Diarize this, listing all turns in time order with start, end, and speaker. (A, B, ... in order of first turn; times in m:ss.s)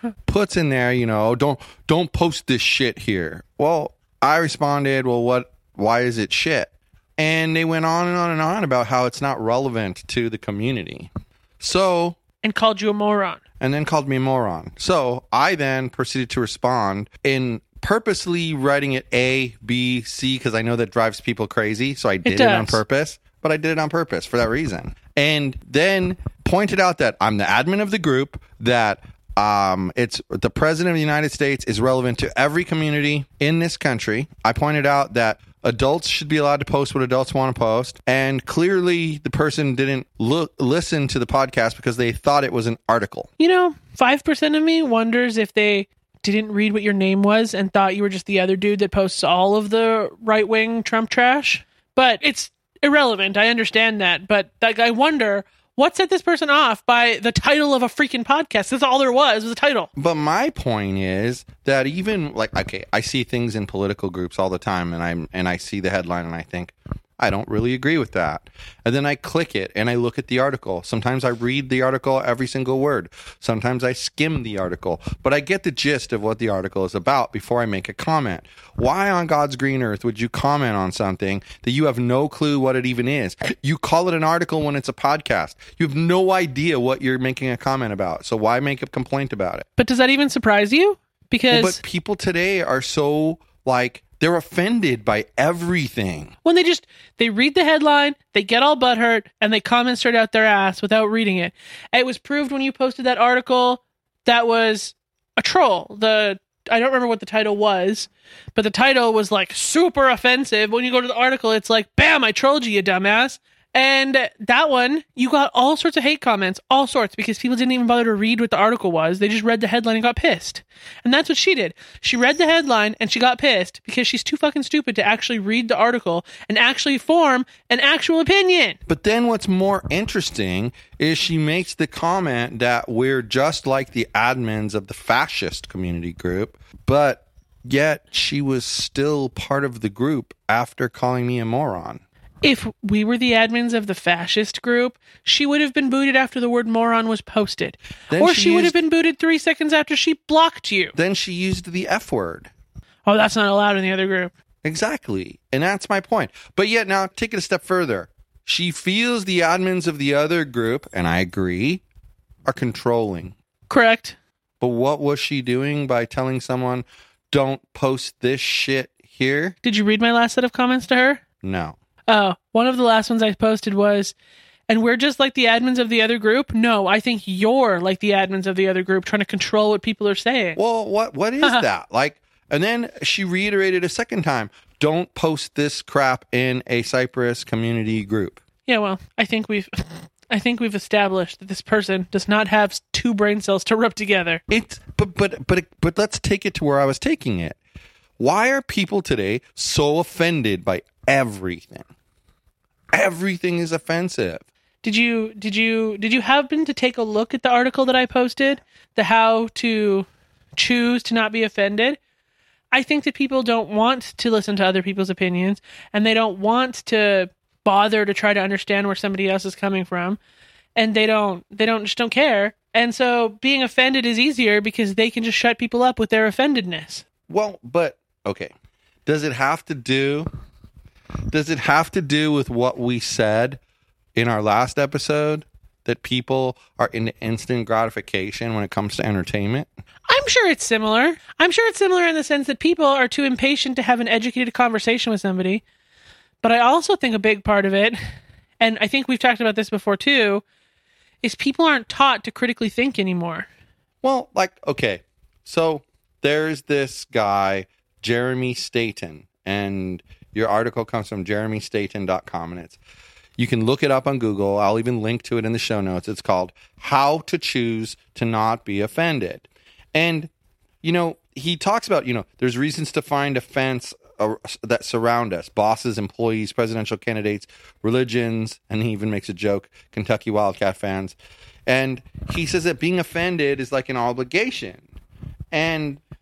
0:00.3-0:12.2 A
0:12.4-0:13.4 B
0:13.6-0:43.3 A
0:22.2-0:22.8 B
0:43.4-0:59.9 B
1:00.0-1:29.7 A
1:29.8-1:31.8 B
1:31.5-1:36.3 A
1:36.4-2:08.8 B
2:08.9-2:22.0 A
2:22.4-2:30.9 B
2:28.1-2:28.8 A
2:31.0-2:32.5 A
2:33.0-2:34.3 B
2:34.6-2:41.8 A
2:42.4-2:43.3 A
2:43.7-2:44.2 B
2:44.6-2:49.6 A
2:49.6-2:51.2 B
2:51.4-2:51.8 A
2:52.1-2:54.1 B
2:54.7-3:00.6 B
3:00.6-3:08.4 A
3:01.4-3:01.6 B
3:08.6-3:14.4 B
3:14.5-3:17.6 A
3:18.2-3:21.9 A
3:22.9-3:24.4 A
3:24.8-3:32.0 B
3:32.7-3:40.2 B
3:40.8-3:47.0 B
3:47.3-3:48.5 A
3:49.0-3:50.3 A
3:51.3-3:53.6 A
3:54.2-3:59.7 A
4:00.1-4:05.6 B
4:06.4-4:08.0 B
4:08.6-4:10.4 B
4:11.2-4:13.5 B
4:14.0-4:22.8 A
4:23.4-4:30.3 A
4:30.8-4:41.2 A
4:41.7-4:44.9 A
4:45.5-4:46.0 A